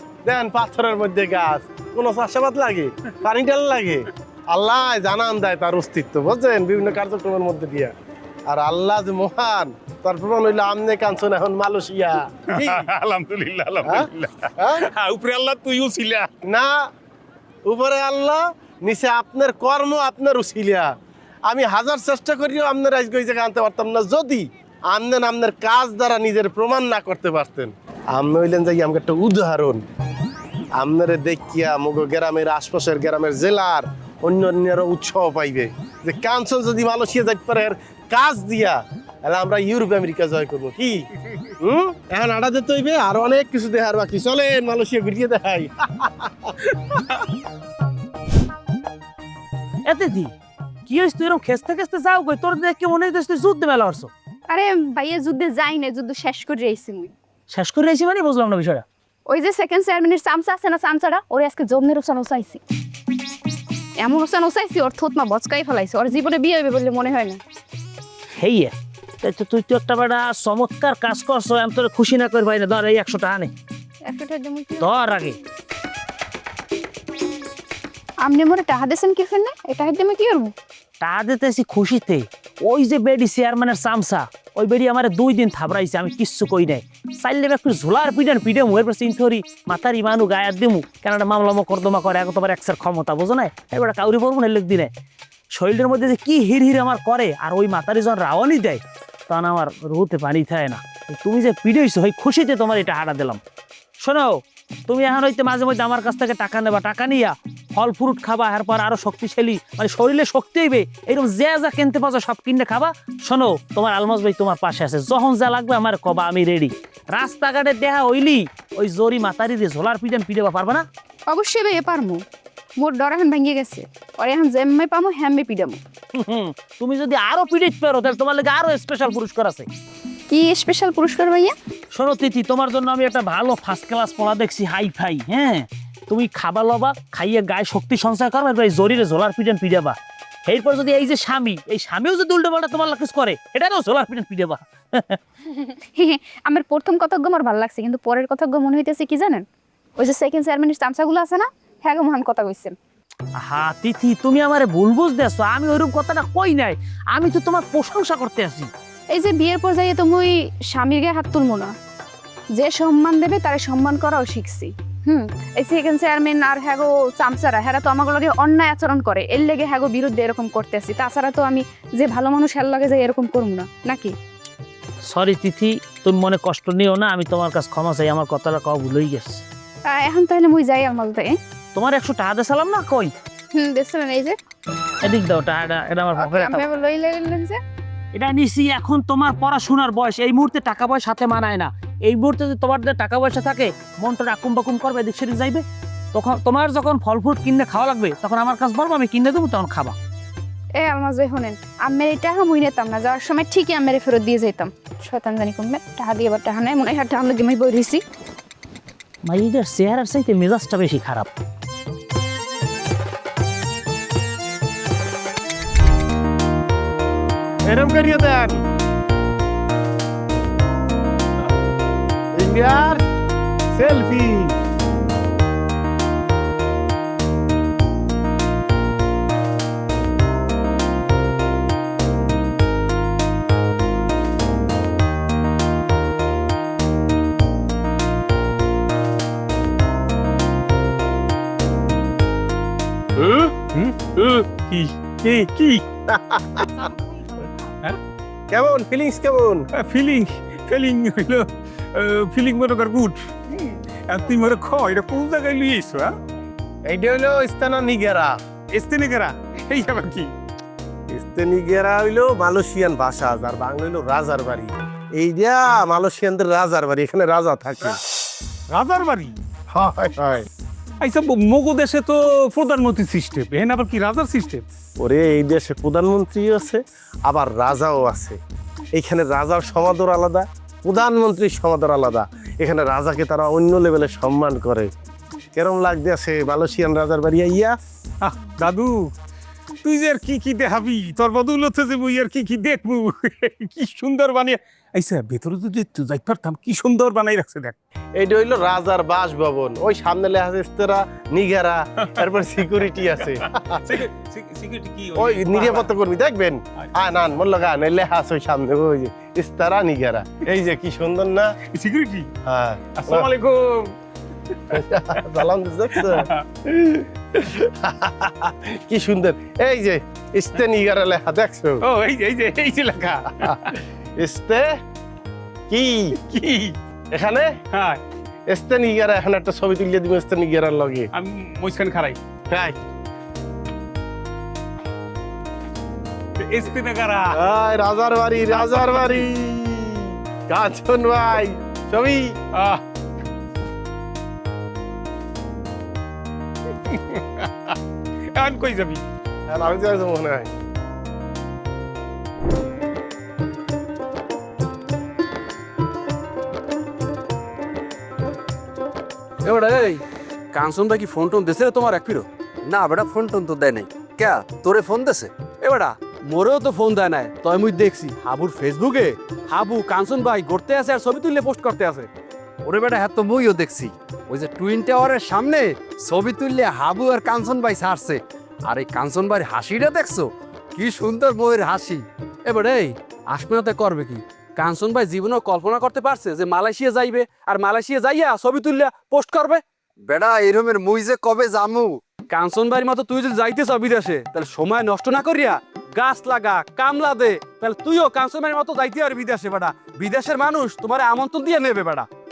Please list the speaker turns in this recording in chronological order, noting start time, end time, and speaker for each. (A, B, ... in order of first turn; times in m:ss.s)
0:00.2-0:07.9 A
0:08.5-0:12.8 A
0:12.5-0:16.3 B
0:13.8-0:14.8 A
0:16.4-0:16.8 A
0:17.6-0:20.9 A
0:21.5-0:29.8 A
0:30.8-0:41.0 A
0:41.6-0:46.5 A
0:49.8-0:50.3 C
0:50.8-0:54.1 C
0:54.5-0:57.1 D
0:57.5-0:58.8 C
0:59.3-1:02.6 D
1:04.0-1:07.4 D
1:08.4-1:13.5 C
1:14.1-1:14.9 D
1:14.8-1:15.4 C
1:18.2-1:20.5 D
1:21.0-1:34.9 C
1:35.5-1:43.4 C
1:44.0-2:00.9 C
2:01.3-2:02.2 D
2:02.8-2:05.8 D
2:06.2-2:09.7 C
2:10.3-2:11.5 D
2:11.9-2:25.2 C
2:25.5-2:29.4 D
2:30.0-2:32.7 D
2:33.4-2:38.7 C
2:39.1-2:41.7 D
2:42.6-2:54.1 D
2:55.0-2:59.4 C
2:59.9-3:01.3 D
3:01.7-3:03.1 C
3:03.5-3:04.4 D
3:05.0-3:06.6 C
3:06.2-3:07.6 D
3:08.1-3:20.0 C
3:20.8-3:28.0 D
3:29.2-3:31.3 C
3:37.6-3:38.6 A
3:42.3-3:43.0 A
3:43.7-3:44.5 A
4:03.2-4:03.5 A
4:03.7-4:05.8 B
4:06.1-4:06.9 A
4:08.5-4:09.6 A
4:09.7-4:16.1 B
4:16.8-4:18.3 A
4:18.7-4:20.3 B
4:21.1-4:28.0 A
4:28.7-4:29.4 B
4:29.7-4:30.5 A
4:31.0-4:34.6 B
4:35.0-4:38.4 A
4:38.9-4:44.9 A
4:45.5-4:47.8 A
4:48.2-4:49.1 B
4:49.8-4:57.8 B
4:58.2-5:03.8 A
5:03.2-5:05.9 B
5:05.2-5:11.5 A
5:11.7-5:12.3 B
5:12.4-5:13.3 A
5:13.0-5:13.9 B
5:14.7-5:16.2 A
5:16.0-5:16.4 B
5:16.8-5:21.8 A
5:21.8-5:23.6 B
5:24.2-5:24.7 A
5:25.7-5:26.1 A
5:26.2-5:26.8 B
5:27.1-5:27.5 A
5:27.7-5:28.0 B
5:28.5-5:31.1 A
5:31.1-5:32.2 B
5:32.5-5:32.7 A
5:36.4-5:37.4 B
5:37.3-5:39.3 A
5:38.5-5:39.9 B
5:40.5-5:42.4 A
5:42.5-5:42.8 B
5:46.9-5:47.8 B
5:48.3-5:49.0 B
5:49.5-5:50.5 A
5:59.4-6:02.3 E
6:02.6-6:05.3 F
6:05.6-6:12.1 E
6:12.6-6:22.8 F
6:22.5-6:29.6 E
6:30.0-6:32.0 F
6:32.3-6:42.1 E